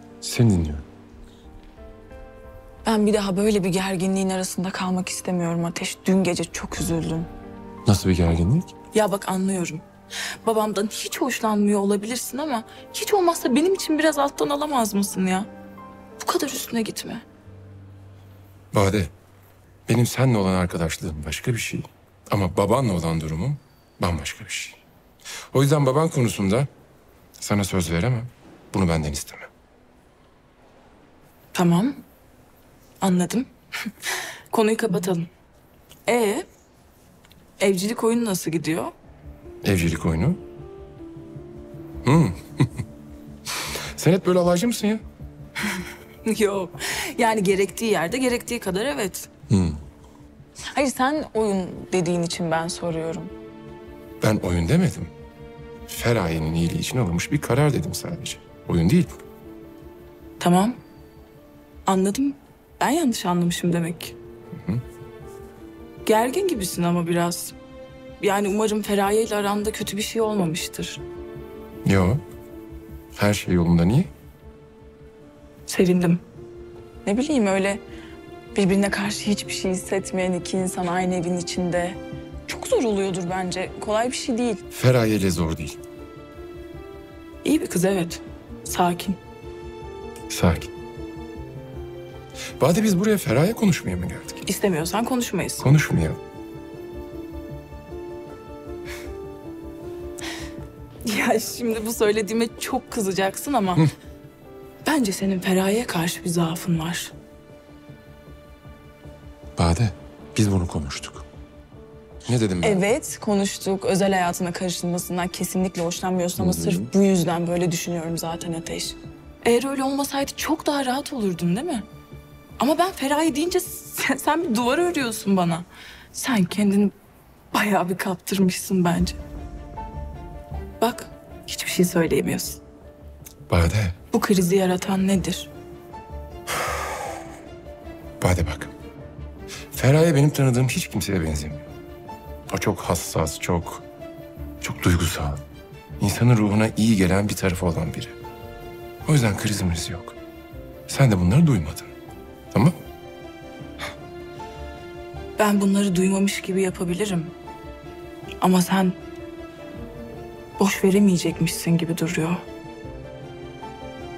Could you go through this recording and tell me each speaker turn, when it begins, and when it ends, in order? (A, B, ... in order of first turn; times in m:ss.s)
0:00.2-0:00.8 A
0:02.8-0:07.3 B
0:07.8-0:08.7 A
0:08.9-0:09.9 B
0:10.4-0:15.5 B
0:16.2-0:17.2 B
0:18.7-0:19.1 A
0:19.9-0:24.8 A
0:25.5-0:26.7 A
0:27.4-0:29.5 A
0:31.5-0:32.0 B
0:33.0-0:33.5 B
0:34.0-0:35.3 B
0:36.1-0:36.5 B
0:37.6-0:38.9 B
0:39.6-0:40.4 A
0:42.0-0:42.8 A
0:43.5-0:45.0 A
0:45.7-0:49.3 B
0:49.5-0:49.8 A
0:50.7-0:53.3 B
0:54.2-0:55.1 A
0:55.9-0:59.2 A
1:00.4-1:00.8 B
1:01.9-1:04.2 B
1:06.0-1:07.6 B
1:08.2-1:11.0 B
1:11.8-1:12.2 A
1:13.2-1:14.1 A
1:15.7-1:16.2 B
1:17.0-1:17.8 B
1:18.5-1:24.6 B
1:24.7-1:25.8 A
1:27.4-1:29.2 B
1:30.3-1:30.7 A
1:32.6-1:34.4 A
1:34.4-1:35.7 B
1:35.6-1:36.2 A
1:41.0-1:43.9 B
1:44.8-1:47.1 B
1:49.6-1:51.2 A
1:52.3-1:52.8 A
1:52.6-2:01.9 B
1:56.4-1:56.9 A
2:02.6-2:06.9 B
2:07.5-2:09.2 B
2:10.8-2:12.6 B
2:13.5-2:14.0 A
2:14.1-2:15.5 B
2:18.2-2:18.7 A
2:19.7-2:21.7 A
2:22.5-2:23.8 A
2:24.6-2:25.4 A
2:26.0-2:28.2 A
2:29.0-2:30.2 A
2:30.9-2:31.9 A
2:35.4-2:37.3 B
2:38.4-2:39.0 B
2:40.6-2:42.4 B